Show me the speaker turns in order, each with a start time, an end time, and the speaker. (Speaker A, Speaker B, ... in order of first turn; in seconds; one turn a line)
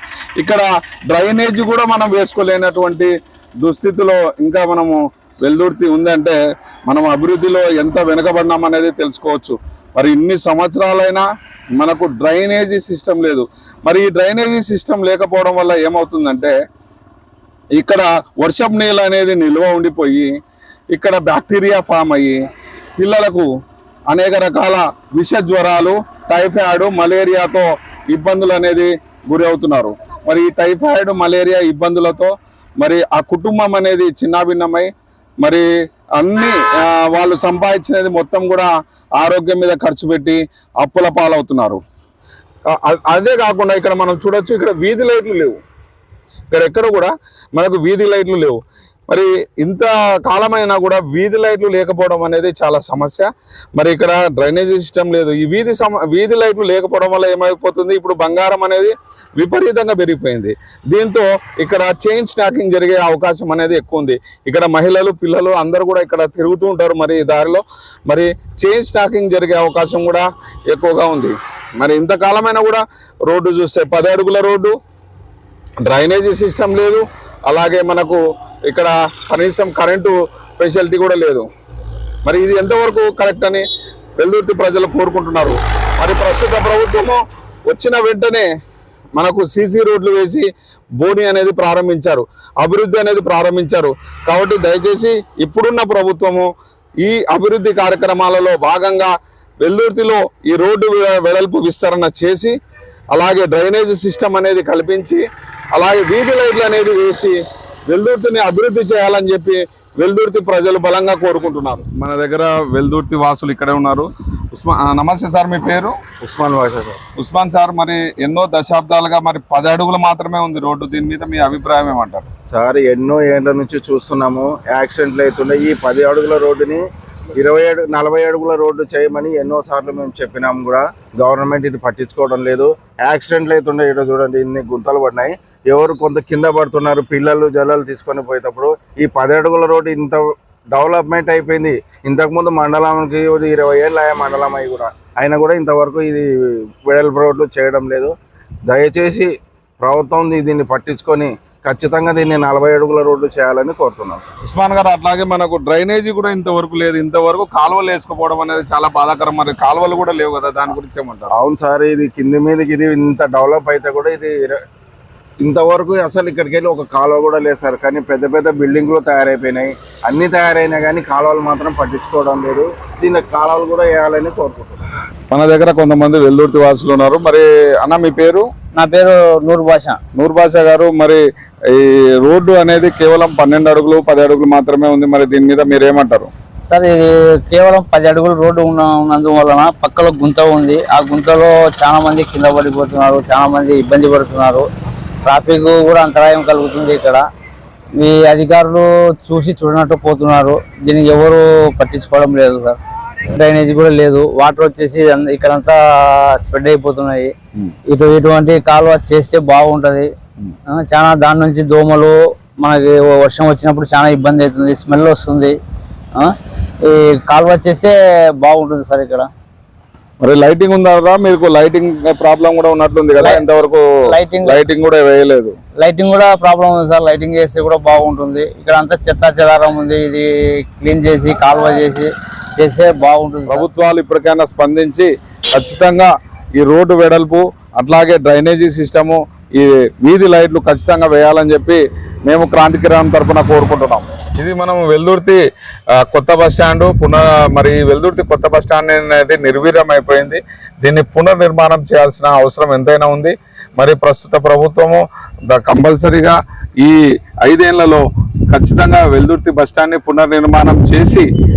Speaker A: 0.4-11.2
Speaker A: 11.8-16.5
Speaker A: 17.8-20.3
Speaker A: 20.9-22.4
Speaker A: 23.0-23.5
Speaker A: 24.1-41.8
Speaker A: 42.7-45.6
Speaker A: 46.5-74.8
Speaker A: 75.8-81.5
Speaker A: 82.2-83.7
Speaker A: 84.2-88.5
Speaker A: 89.2-102.5
Speaker A: 103.1-116.1
Speaker B: 116.2-117.0
Speaker A: 117.2-122.3
Speaker B: 122.5-126.8
Speaker B: 127.3-148.1
Speaker B: 148.7-154.2
Speaker A: 154.4-161.4
Speaker B: 161.3-164.6
Speaker B: 165.4-174.8
Speaker A: 175.3-178.5
Speaker C: 178.7-180.0
Speaker A: 180.2-186.3
Speaker C: 186.7-194.7
Speaker C: 195.2-197.3
Speaker C: 198.0-202.8
Speaker C: 203.3-207.3
Speaker C: 207.9-210.1
Speaker C: 210.7-215.6
Speaker C: 216.2-219.3
Speaker A: 220.2-223.8
Speaker C: 223.2-223.4
Speaker C: 224.1-224.6
Speaker A: 224.4-225.6
Speaker C: 225.8-233.7
Speaker A: 233.5-245.4
Speaker A: 245.9-261.3